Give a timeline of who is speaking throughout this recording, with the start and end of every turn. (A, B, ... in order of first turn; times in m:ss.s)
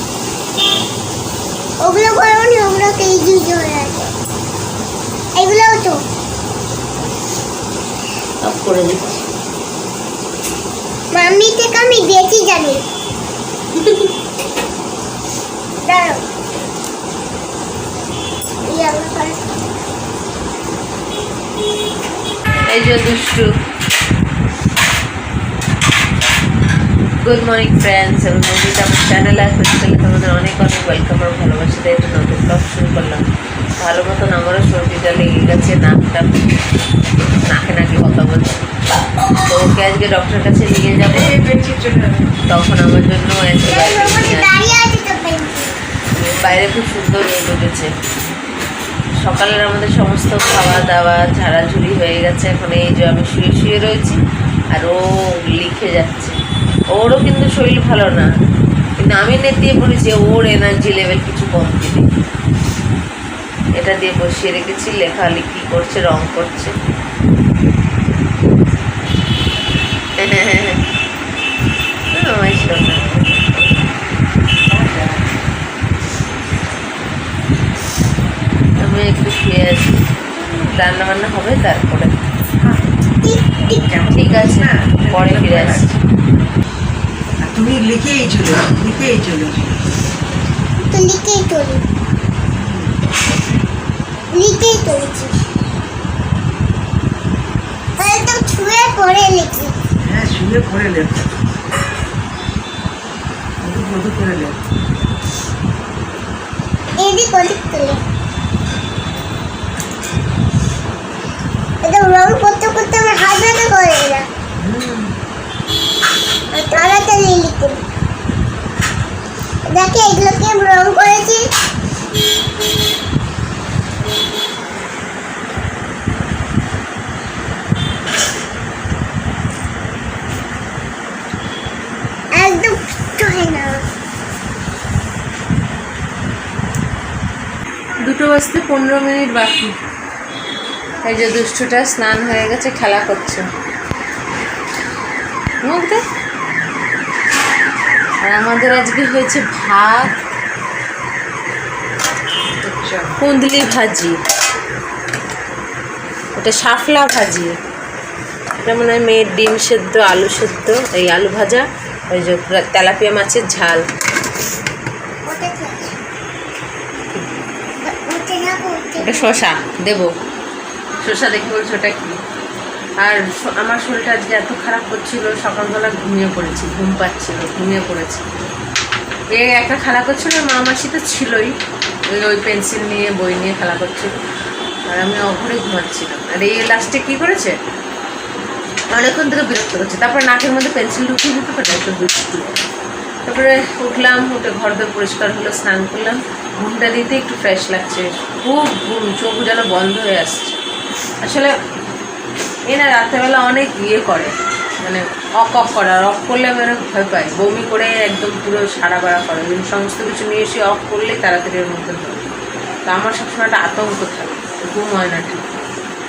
0:01.8-0:04.1 A
0:05.4-0:06.0 A
0:08.4-0:09.2 B
0:11.1-0:12.8 A
0:15.8-0:16.2 A
0:18.6-0:19.7 A
0:22.7-0:23.5 B
0:27.2-0:33.2 B
0:33.8-0:36.3 B
0:37.5-0:38.7 B
0:39.4-0:41.4 B
0:41.1-0:42.3 C
0:42.5-0:44.5 B
0:43.6-0:45.8 A
0:46.2-0:47.9 B
0:49.2-0:54.2 B
0:54.7-0:56.4 B
0:56.9-0:58.3 B
0:59.0-1:02.1 B
1:03.8-1:06.7 B
1:10.2-1:10.8 B
1:12.1-1:13.3 B
1:14.7-1:15.3 C
1:18.8-1:22.1 B
1:23.2-1:23.9 A
1:23.8-1:26.0 C
1:24.1-1:25.9 B
1:27.4-1:29.8 C
1:30.8-1:31.8 A
1:32.5-1:33.0 C
1:34.3-1:35.4 A
1:38.0-1:39.7 A
1:40.0-1:41.2 C
1:43.6-1:44.6 C
1:47.0-1:48.0 A
1:51.8-1:54.3 A
1:54.6-1:55.1 C
1:56.5-1:57.8 A
1:59.7-2:01.5 A
2:12.4-2:13.8 A
2:18.0-2:19.8 B
2:21.0-2:23.4 B
2:25.6-2:26.0 B
2:28.2-2:30.2 B
2:32.6-2:33.2 C
2:33.2-2:34.2 B
2:36.4-2:37.5 B
2:38.6-2:43.8 B
2:45.3-2:46.0 A
2:47.8-2:49.3 A
2:49.0-2:50.1 B
2:51.0-2:52.2 B
2:53.0-2:58.2 B
2:59.4-3:01.6 B
3:02.1-3:04.2 B
3:04.9-3:07.6 B
3:08.9-3:12.5 B
3:13.3-3:20.6 B
3:21.2-3:21.5 B
3:22.7-3:32.2 B
3:32.9-3:35.5 B